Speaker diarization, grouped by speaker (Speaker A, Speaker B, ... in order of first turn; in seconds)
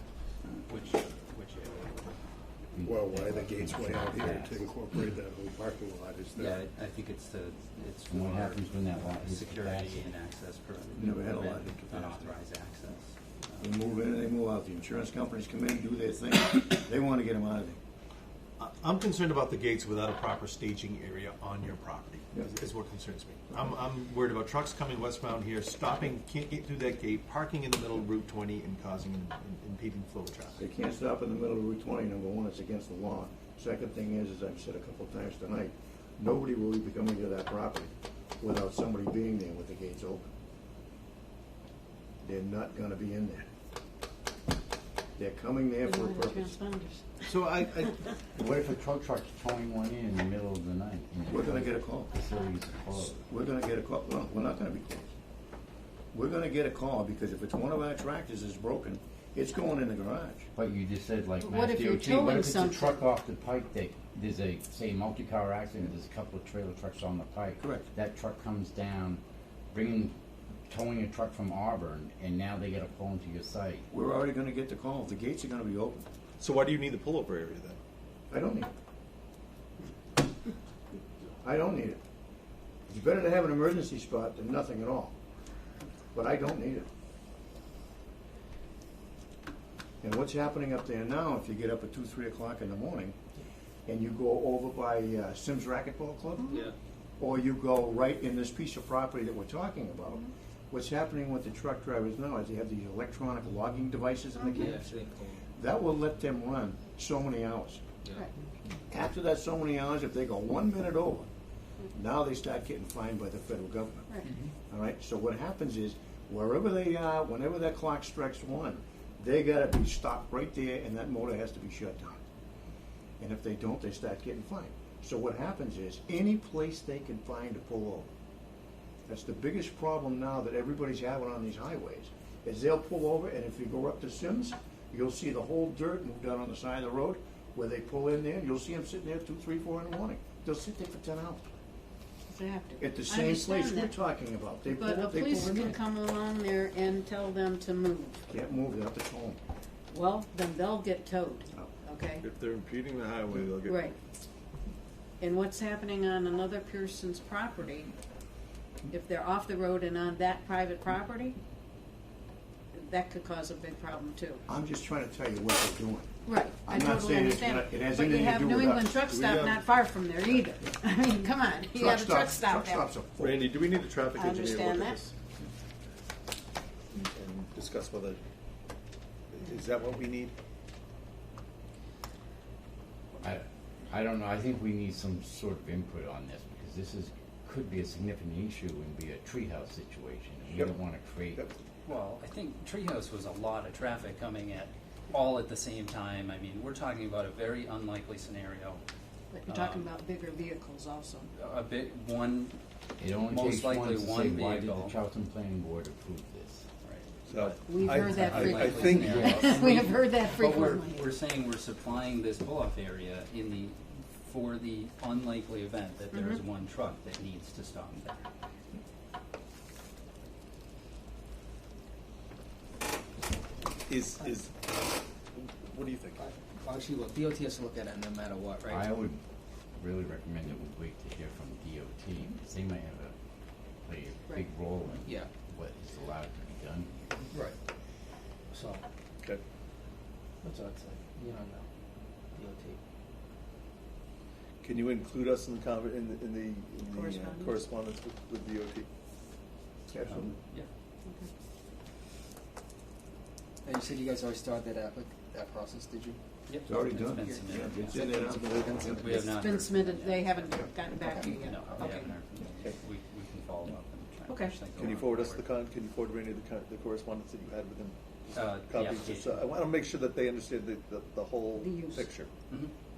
Speaker A: 0.7-2.1, 6.3-13.7, 191.8-198.8, 199.5-199.9, 201.3-202.6, 203.2-204.9, 206.8-218.2, 250.1-250.7, 256.5-258.1, 259.0-260.5, 261.3-265.5, 268.3-269.4
Speaker B: 2.7-4.7, 8.1-10.1, 48.4-53.2, 60.5-69.2, 69.7-70.1, 70.7-73.8, 183.2-191.4, 203.0-206.7, 209.0-209.4, 228.6-229.2, 229.8-233.1, 233.8-237.1
Speaker C: 2.9-6.5
Speaker D: 11.0-12.2, 13.6-17.8, 30.6-40.3, 42.2-43.5, 45.2-46.5, 51.3-52.1, 53.0-55.1, 56.1-60.5, 67.6-67.9, 73.9-76.0, 78.3-78.7, 81.4-82.0, 82.9-85.1, 86.1-86.9, 90.0-93.2, 93.9-96.6, 97.2-104.9, 105.5-107.8, 108.9-111.3, 111.9-114.1, 114.7-122.2, 123.2-128.1, 129.1-141.5, 142.8-145.8, 148.3-149.4, 164.5-166.1, 166.6-169.0, 171.7-173.5, 249.9-250.4, 256.6-259.2
Speaker E: 18.6-30.6, 47.2-48.0, 76.4-77.8, 152.2-153.9, 169.1-169.7, 173.2-175.1, 176.9-178.2, 179.3-180.3, 207.3-209.9, 223.9-224.5, 225.3-226.3, 244.6-248.9, 264.8-272.3
Speaker F: 45.8-48.0, 61.4-63.0, 104.4-104.7, 114.1-114.3, 142.3-143.9, 144.7-148.2, 149.9-152.2, 153.6-153.9, 155.2-157.9, 158.9-161.3, 162.7-164.4, 166.2-172.9, 174.1-175.0, 199.3-201.3, 207.7-211.1, 216.1-216.4, 246.9-247.6, 259.1-262.1, 264.3-264.5, 271.5-272.1
Speaker G: 104.6-105.4, 226.6-228.8, 235.0-235.3, 238.5-238.8, 240.4-241.6, 242.3-242.8, 253.6-256.2, 257.2-259.2